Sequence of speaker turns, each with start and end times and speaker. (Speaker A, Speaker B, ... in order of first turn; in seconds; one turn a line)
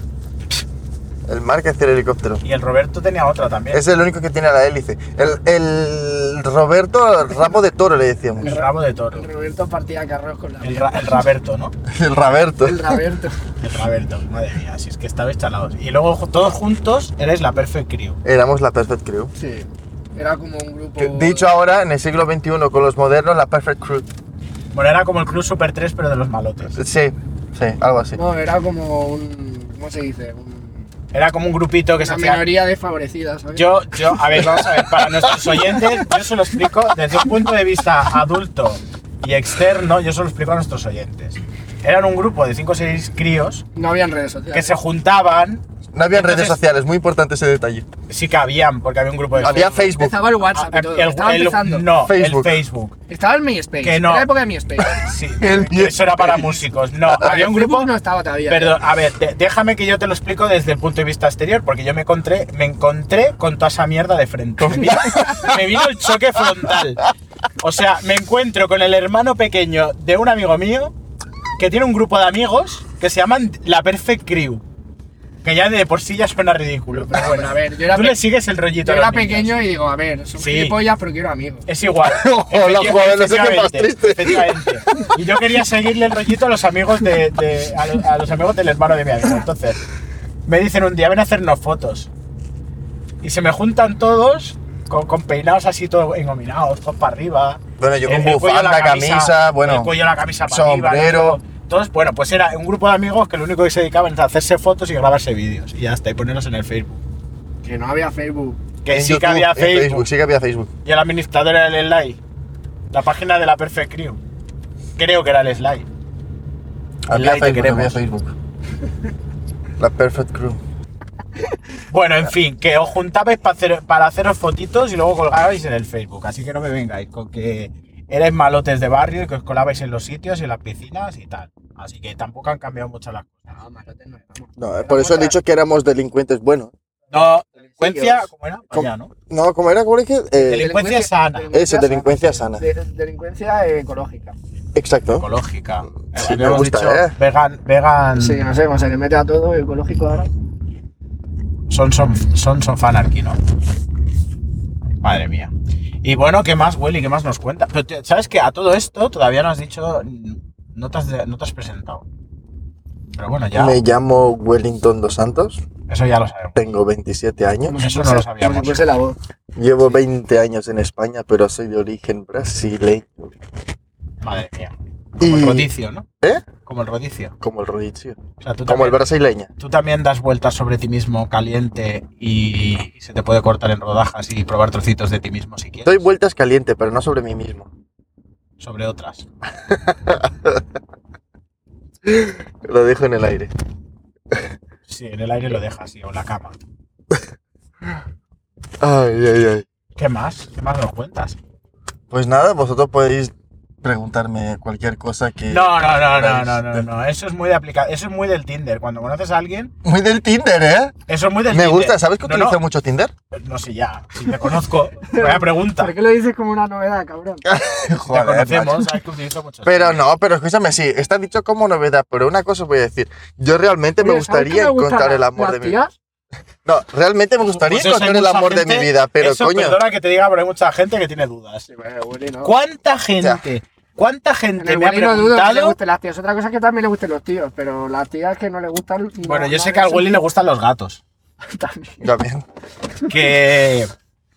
Speaker A: 1.3-2.4
Speaker B: 2.4-3.9
Speaker A: 3.7-8.6
Speaker B: 8.4-9.3
Speaker C: 8.4-11.1
Speaker B: 10.6-11.7
Speaker A: 11.9-13.0
Speaker C: 12.6-13.4
Speaker B: 13.6-18.2
Speaker A: 18.2-19.3
Speaker C: 19.4-21.5
Speaker A: 21.0-24.1
Speaker B: 24.7-26.8
Speaker A: 26.8-28.2
Speaker C: 28.1-30.9
Speaker B: 31.1-32.4
Speaker C: 32.0-33.8
Speaker B: 33.5-43.6
Speaker A: 34.5-35.9
Speaker C: 43.8-44.8
Speaker B: 44.5-46.6
Speaker A: 45.9-47.9
Speaker B: 48.1-49.8
Speaker C: 49.3-51.9
Speaker A: 49.4-50.2
Speaker B: 50.5-53.0
Speaker A: 52.0-52.6
Speaker C: 53.1-55.1
Speaker B: 53.8-54.3
Speaker B: 55.0-57.9
Speaker A: 55.4-56.6
Speaker C: 57.1-58.8
Speaker B: 58.5-67.1
Speaker A: 64.6-65.8
Speaker B: 67.6-70.9
Speaker B: 71.6-74.6
Speaker B: 75.4-79.5
Speaker C: 77.0-78.2
Speaker C: 78.8-81.7
Speaker B: 80.4-80.8
Speaker B: 81.7-89.8
Speaker A: 82.0-85.1
Speaker B: 90.5-92.1
Speaker B: 93.2-107.0
Speaker A: 97.8-99.9
Speaker A: 100.5-101.4
Speaker C: 107.6-108.6
Speaker B: 108.8-110.1
Speaker A: 108.9-110.7
Speaker B: 110.8-112.2
Speaker B: 112.9-114.2
Speaker B: 115.0-115.9
Speaker A: 117.1-118.3
Speaker B: 117.1-118.0
Speaker A: 119.8-120.6
Speaker B: 121.9-133.6
Speaker C: 133.6-135.3
Speaker A: 134.6-136.7
Speaker B: 137.1-139.1
Speaker C: 137.2-138.3
Speaker A: 138.7-140.7
Speaker C: 140.4-144.4
Speaker B: 140.4-141.5
Speaker A: 141.5-142.7
Speaker A: 144.8-145.3
Speaker B: 145.1-148.5
Speaker A: 146.1-147.2
Speaker C: 148.2-150.3
Speaker B: 151.7-153.4
Speaker B: 155.0-155.5
Speaker B: 156.0-162.1
Speaker B: 163.2-163.8
Speaker A: 163.5-165.6
Speaker B: 165.9-166.6
Speaker A: 166.6-167.8
Speaker C: 167.7-169.2
Speaker B: 167.7-168.8
Speaker A: 169.6-173.3
Speaker B: 174.2-176.1
Speaker A: 175.2-175.7
Speaker B: 176.7-177.3
Speaker A: 177.4-179.5
Speaker B: 178.4-179.0
Speaker B: 179.6-186.1
Speaker A: 185.8-187.7
Speaker B: 188.6-189.3
Speaker A: 189.7-190.6
Speaker A: 192.1-193.5
Speaker B: 194.9-196.6
Speaker A: 198.8-199.7
Speaker B: 200.0-201.4
Speaker A: 202.1-206.8
Speaker B: 205.5-209.7
Speaker A: 209.8-210.9
Speaker B: 211.1-212.6
Speaker A: 211.5-213.1
Speaker B: 213.4-215.9
Speaker C: 215.1-217.4
Speaker A: 217.4-218.9
Speaker B: 218.0-220.0
Speaker A: 219.7-225.8
Speaker C: 224.0-225.9
Speaker A: 226.7-229.8
Speaker B: 227.4-231.7
Speaker C: 231.7-232.5
Speaker B: 232.4-235.8
Speaker C: 234.6-240.2
Speaker B: 239.2-241.0
Speaker C: 241.5-242.0
Speaker A: 242.0-242.4
Speaker B: 243.1-243.9